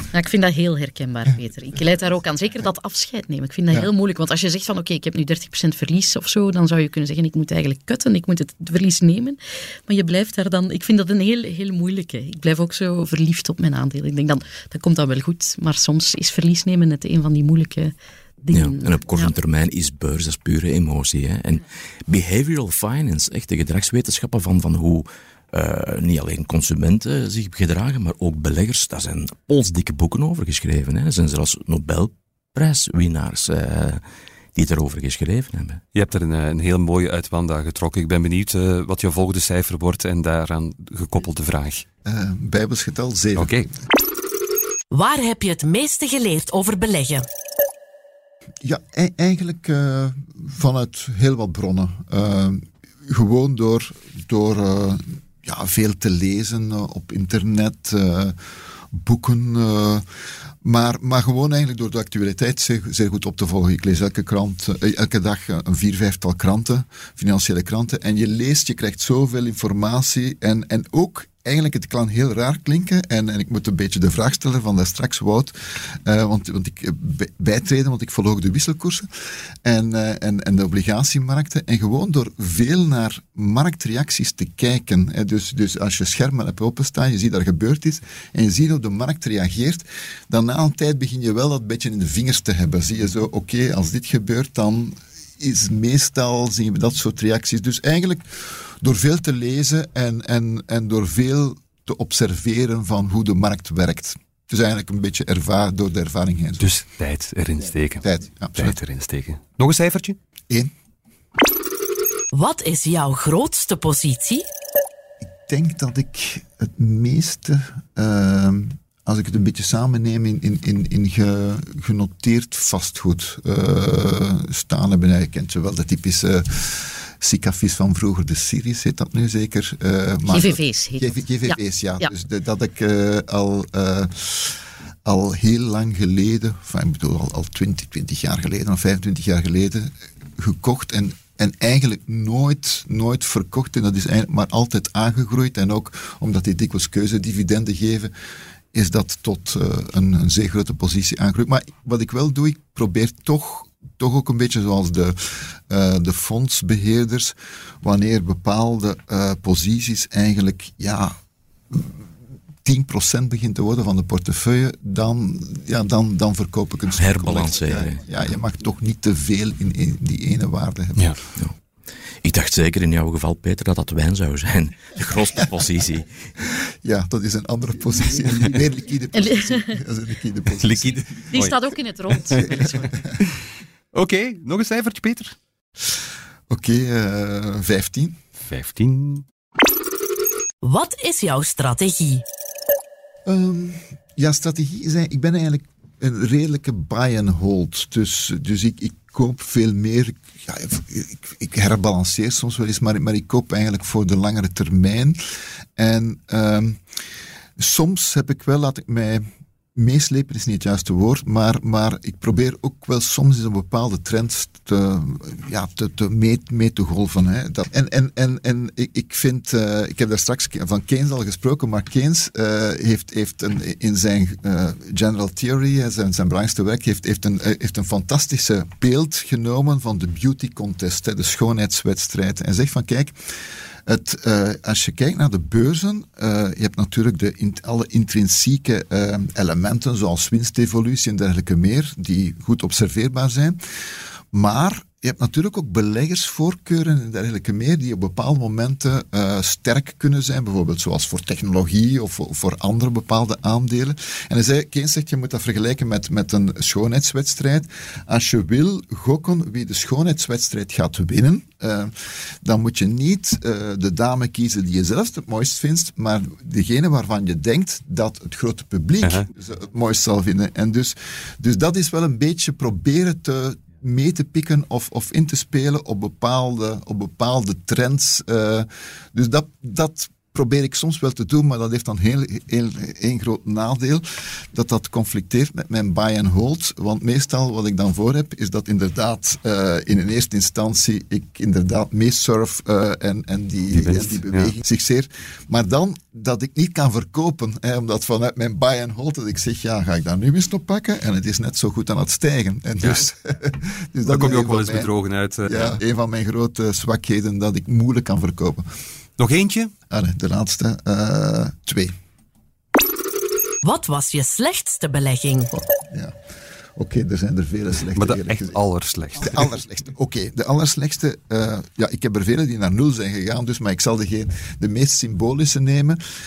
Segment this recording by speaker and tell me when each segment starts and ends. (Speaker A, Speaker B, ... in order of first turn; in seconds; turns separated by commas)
Speaker A: 0.1-19.3, Speaker B: 18.5-34.0, Speaker B: 34.5-35.8, Speaker C: 35.9-41.8, Speaker D: 42.0-43.7, Speaker C: 43.4-43.7, Speaker E: 44.9-47.2, Speaker D: 48.6-58.4, Speaker D: 58.9-60.0, Speaker D: 60.6-79.1, Speaker D: 79.6-106.7, Speaker C: 106.6-110.2, Speaker D: 108.0-108.8, Speaker E: 112.3-114.4, Speaker D: 115.5-148.1, Speaker A: 130.3-132.1, Speaker D: 148.7-161.1, Speaker D: 161.7-162.0, Speaker D: 162.6-171.2, Speaker B: 166.9-168.0, Speaker B: 172.2-176.1, Speaker D: 176.4-181.4, Speaker A: 179.1-179.8, Speaker C: 180.6-181.6, Speaker A: 181.3-182.7, Speaker C: 182.2-183.4, Speaker D: 182.3-183.2, Speaker C: 183.9-185.3, Speaker D: 186.5-188.2, Speaker C: 188.4-189.2, Speaker E: 190.6-192.2, Speaker D: 193.2-205.2, Speaker D: 205.8-206.8, Speaker D: 207.6-233.3, Speaker D: 233.8-243.6, Speaker D: 244.3-304.9, Speaker C: 269.0-269.3, Speaker C: 293.7-294.5, Speaker C: 304.1-305.8, Speaker D: 305.4-308.6, Speaker C: 309.2-309.7, Speaker D: 309.9-311.9, Speaker E: 313.6-315.5, Speaker D: 315.5-316.2, Speaker D: 316.8-318.6, Speaker C: 317.9-319.5, Speaker D: 319.2-326.0